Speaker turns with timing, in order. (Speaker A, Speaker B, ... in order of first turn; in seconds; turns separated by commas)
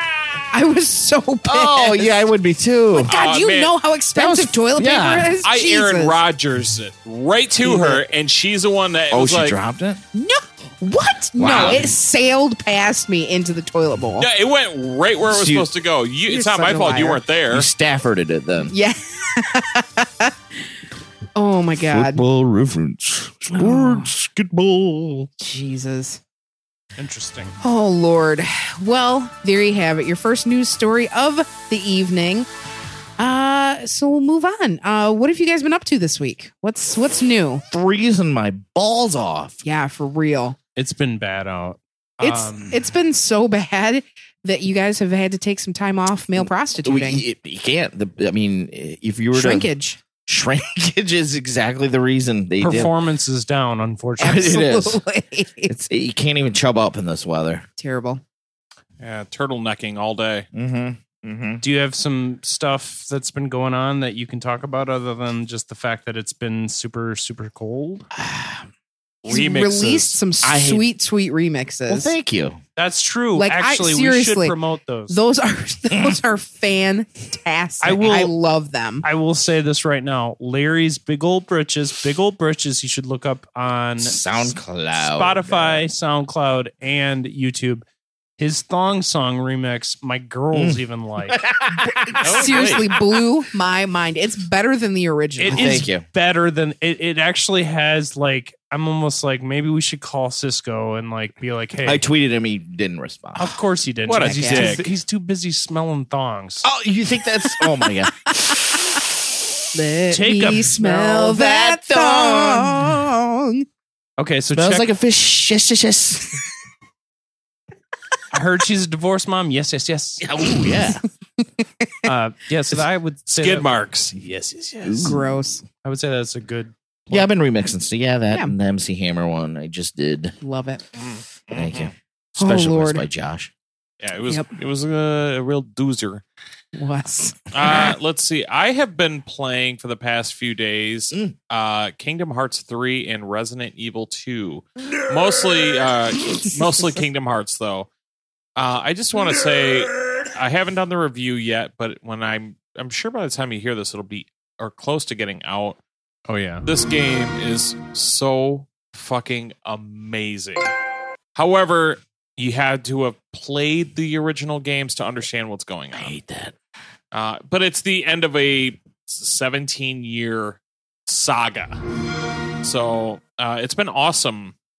Speaker A: 0.5-2.2, Speaker B: 1.4-3.1, Speaker A: 2.9-6.2, Speaker C: 3.0-3.7, Speaker B: 4.1-5.3, Speaker C: 5.4-9.6, Speaker B: 9.1-10.0, Speaker A: 10.1-14.3, Speaker B: 11.3-11.9, Speaker C: 11.5-11.8, Speaker C: 14.2-17.7, Speaker B: 15.3-15.7, Speaker A: 16.3-17.2, Speaker B: 17.5-18.7, Speaker A: 18.7-20.3, Speaker A: 21.3-22.2, Speaker B: 21.8-25.3, Speaker A: 23.5-24.1, Speaker A: 25.4-26.2, Speaker D: 27.0-27.6, Speaker A: 27.6-32.5, Speaker A: 33.2-37.6, Speaker B: 37.7-39.6, Speaker A: 39.6-40.6, Speaker D: 40.8-42.7, Speaker A: 42.2-47.2, Speaker B: 46.4-49.7, Speaker A: 49.3-50.0, Speaker B: 50.2-52.9, Speaker D: 52.6-54.5, Speaker A: 54.2-55.7, Speaker B: 54.2-55.0, Speaker B: 55.7-57.6, Speaker A: 57.8-58.2, Speaker C: 59.0-60.5, Speaker B: 60.5-61.6, Speaker D: 61.6-68.0, Speaker B: 68.1-68.7, Speaker C: 69.2-70.2, Speaker A: 69.3-72.1, Speaker B: 70.4-70.8, Speaker B: 71.9-72.6, Speaker D: 72.8-75.2, Speaker A: 73.3-74.5, Speaker A: 75.1-79.0, Speaker B: 75.9-76.2, Speaker D: 77.8-78.3, Speaker D: 79.0-87.8, Speaker B: 84.0-85.8, Speaker D: 88.4-91.4, Speaker B: 90.5-93.2, Speaker A: 91.9-95.8, Speaker C: 92.2-92.8, Speaker D: 95.4-102.0, Speaker B: 95.5-96.0, Speaker B: 101.8-103.6, Speaker D: 103.4-106.7, Speaker C: 104.1-104.9, Speaker A: 104.2-104.8, Speaker B: 106.6-109.1, Speaker A: 109.7-113.7, Speaker D: 110.1-110.8, Speaker B: 110.8-113.0, Speaker D: 114.2-114.9, Speaker B: 114.5-116.4, Speaker D: 118.3-120.2, Speaker B: 120.2-121.0, Speaker D: 122.0-123.7, Speaker C: 123.3-124.2, Speaker D: 124.2-125.1, Speaker B: 124.8-125.2, Speaker A: 125.0-125.6, Speaker D: 125.8-127.3, Speaker B: 127.1-130.3, Speaker A: 130.4-130.8, Speaker C: 131.0-131.9, Speaker B: 131.5-133.5, Speaker A: 132.4-133.0, Speaker C: 134.0-136.2, Speaker A: 136.8-137.9, Speaker C: 137.5-147.9, Speaker C: 148.6-155.8, Speaker D: 156.3-156.7, Speaker C: 156.6-160.7, Speaker C: 161.3-166.2, Speaker B: 165.9-166.5, Speaker C: 167.1-171.8, Speaker C: 172.6-174.5